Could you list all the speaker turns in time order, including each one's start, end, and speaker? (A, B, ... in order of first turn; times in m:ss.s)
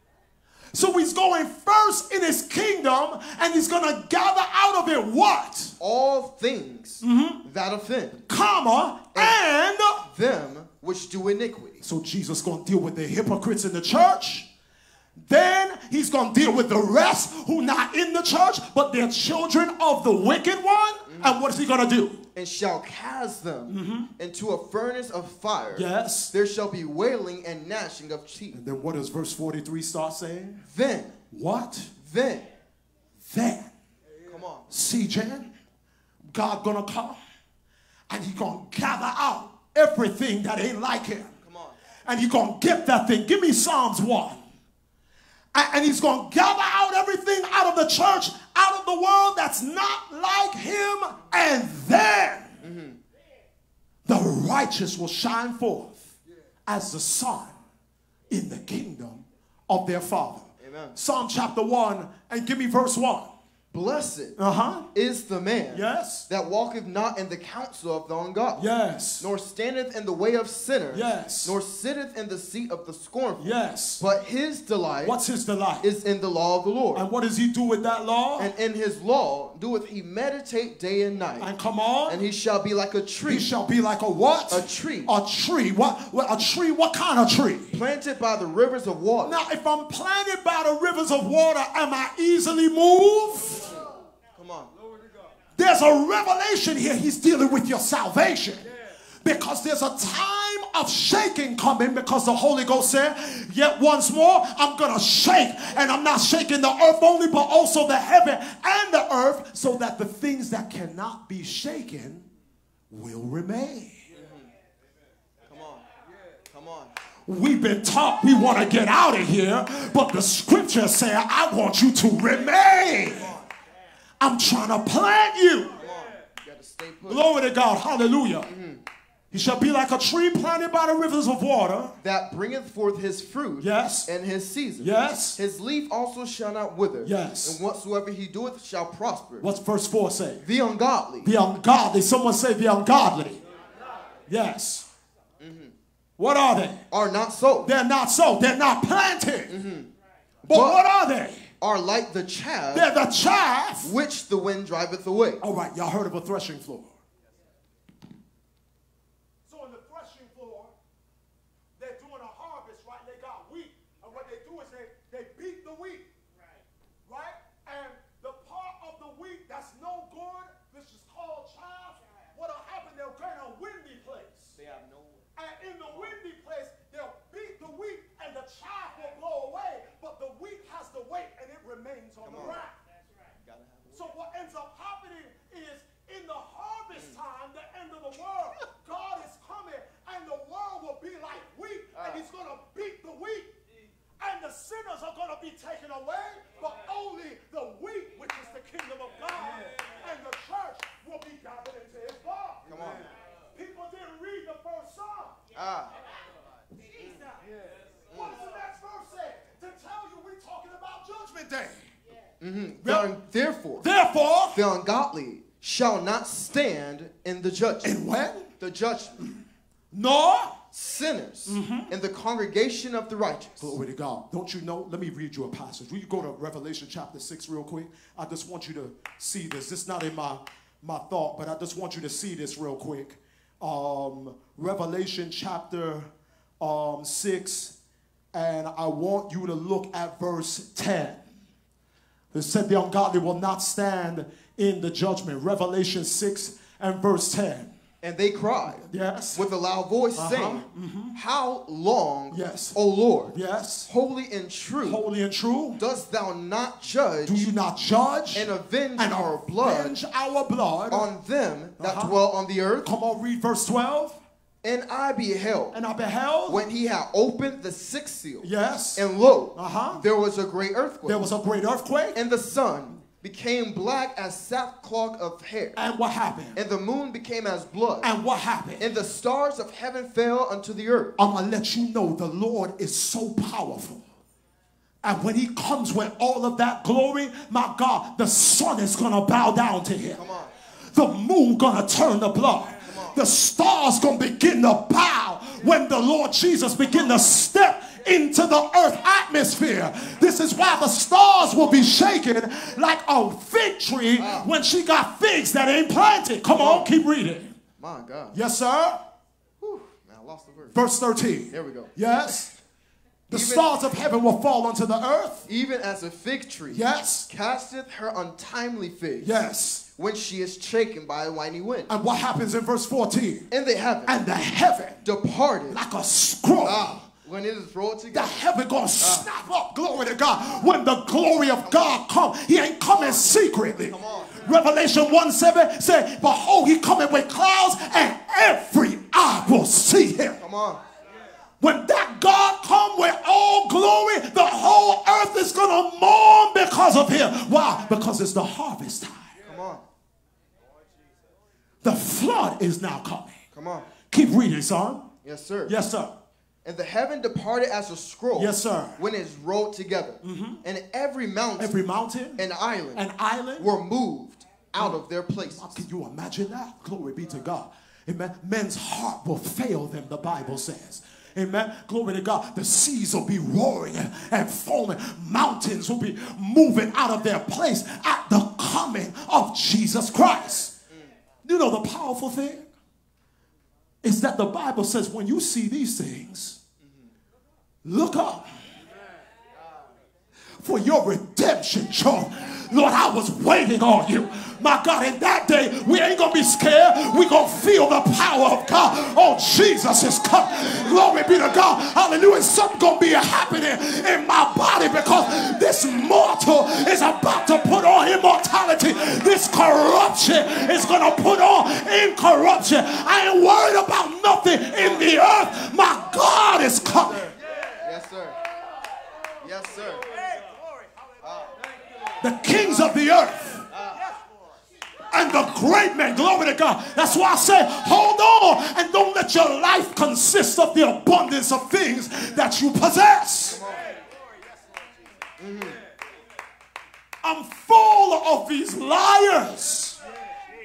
0:00.7-0:05.7 A
0:05.8-0:08.2 B
0:07.0-0:07.4 A
0:08.3-0:10.0 A
0:10.0-0:11.8 B
0:11.8-0:14.5 A
0:15.2-0:22.2 A
0:21.1-0:21.4 B
0:22.3-0:28.6 B
0:23.7-0:24.1 A
0:25.7-0:26.3 A
0:28.5-0:30.6 A
0:30.7-0:31.2 B
0:31.3-0:31.9 A
0:32.0-0:32.5 B
0:33.2-0:33.7 A
0:34.2-0:34.7 B
0:34.7-0:35.5 A
0:36.3-0:37.2 A
0:38.1-0:41.3 A
0:41.4-0:41.8 B
0:42.0-0:44.4 A
0:45.5-0:52.6 A
0:52.6-0:53.0 B
0:54.0-0:56.0 A
0:56.7-0:57.6 A
0:58.3-1:03.3 A
1:00.6-1:01.0 B
1:03.7-1:04.4 B
1:04.4-1:04.8 A
1:04.9-1:08.6 B
1:05.7-1:06.3 A
1:08.6-1:09.2 A
1:09.2-1:15.2 B
1:10.9-1:11.6 A
1:13.4-1:14.0 A
1:15.0-1:15.9 A
1:15.8-1:17.0 B
1:16.9-1:18.5 A
1:18.4-1:21.5 B
1:21.4-1:22.2 A
1:22.1-1:23.5 B
1:23.3-1:27.8 A
1:24.5-1:25.1 B
1:27.7-1:29.4 B
1:29.2-1:33.7 A
1:34.4-1:34.7 B
1:35.6-1:38.7 A
1:39.2-1:52.3 A
1:52.9-1:54.0 A
1:54.1-1:54.5 B
1:55.5-1:55.8 B
1:56.5-1:56.9 B
1:57.3-2:03.4 A
2:03.0-2:03.5 B
2:04.2-2:05.7 A
2:05.8-2:07.2 B
2:07.1-2:08.5 A
2:08.4-2:08.8 B
2:09.3-2:12.0 A
2:12.0-2:19.4 B
2:13.6-2:14.1 A
2:14.8-2:15.4 A
2:17.0-2:17.6 A
2:19.4-2:20.4 A
2:20.4-2:21.3 B
2:21.2-2:23.4 A
2:24.3-2:24.9 A
2:25.4-2:25.7 B
2:26.2-2:26.8 A
2:26.9-2:27.7 B
2:27.6-2:29.6 A
2:29.5-2:29.9 B
2:30.4-2:30.8 B
2:30.4-2:31.5 A
2:31.6-2:32.9 B
2:32.7-2:33.9 A
2:33.8-2:35.4 B
2:35.4-2:36.9 A
2:39.5-2:40.7 A
2:41.8-2:46.1 A
2:47.1-2:54.5 A
2:54.5-2:55.3 B
2:55.4-3:02.8 A
3:02.2-3:02.6 B
3:03.4-3:04.1 B
3:03.9-3:13.6 A
3:11.9-3:12.2 B
3:14.2-3:22.8 A
3:22.6-3:23.1 B
3:23.5-3:25.4 A
3:25.5-3:25.9 B
3:26.9-3:27.1 A
3:28.1-3:31.9 A
3:28.1-3:28.4 B
3:32.4-3:33.9 B
3:32.8-3:33.1 A
3:33.8-3:34.6 A
3:34.5-3:37.9 B
3:37.8-3:38.5 A
3:38.6-3:39.3 B
3:39.9-3:40.6 A
3:40.7-3:43.7 B
3:41.5-3:41.9 A
3:43.6-3:57.7 A
3:58.3-4:01.2 A
4:02.3-4:07.7 A
4:08.0-4:15.0 B
4:08.8-4:09.4 A
4:10.2-4:11.2 A
4:12.3-4:12.7 A
4:13.3-4:13.9 A
4:14.8-4:15.8 A
4:15.8-4:17.5 B
4:17.2-4:21.1 A
4:18.3-4:20.0 B
4:20.9-4:22.9 B
4:21.8-4:22.1 A
4:22.8-4:24.2 A
4:24.6-4:25.8 B
4:25.7-4:26.6 A
4:26.5-4:31.2 B
4:28.4-4:29.0 A
4:29.5-4:30.0 A
4:31.0-4:32.2 A
4:32.1-4:35.8 B
4:35.8-4:36.6 A
4:36.5-4:38.1 B
4:38.0-4:38.8 A
4:38.8-4:41.1 B
4:41.2-4:44.0 A
4:45.0-4:50.2 A
4:50.2-4:50.5 B
4:50.9-5:07.5 A
4:52.8-4:53.2 B
4:56.8-4:57.2 B
5:04.2-5:04.5 B
5:06.5-5:06.9 B
5:07.8-5:08.4 B
5:08.3-5:09.0 A
5:09.6-5:10.8 B
5:10.7-5:12.5 A
5:11.5-5:11.9 B
5:13.3-5:15.4 A
5:13.3-5:13.7 B
5:15.5-5:19.3 B
5:16.7-5:17.3 A
5:19.2-5:19.8 A
5:20.0-5:21.9 B
5:21.9-5:23.5 A
5:23.5-5:24.2 B
5:24.0-5:25.0 A
5:25.0-5:25.8 B
5:25.7-5:27.0 A
5:26.6-5:28.4 B
5:28.1-5:40.4 A
5:29.0-5:29.3 B
5:31.6-5:32.0 B
5:33.9-5:34.4 B
5:40.4-5:40.8 B
5:41.6-5:49.3 A
5:49.4-5:49.8 B
5:51.8-5:53.4 A
5:53.5-5:53.9 B
5:54.1-5:55.1 A
5:55.2-5:55.7 B
5:55.6-5:56.1 A
5:56.6-6:01.8 B
5:58.4-5:59.0 A
6:00.2-6:00.6 A
6:01.6-6:02.4 A
6:02.4-6:03.0 B
6:02.9-6:03.7 A
6:03.6-6:05.8 B
6:05.6-6:20.7 A
6:21.4-6:22.7 A
6:24.0-6:26.6 A
6:26.8-6:27.1 B
6:27.8-6:28.5 A
6:30.6-6:57.3 A
6:56.8-6:58.4 B
6:59.4-7:00.1 B
7:01.2-7:01.5 B
7:02.2-7:03.7 A
7:03.7-7:04.1 B
7:05.1-7:13.6 A
7:13.5-7:13.9 B
7:15.4-7:15.8 B
7:17.2-7:20.0 A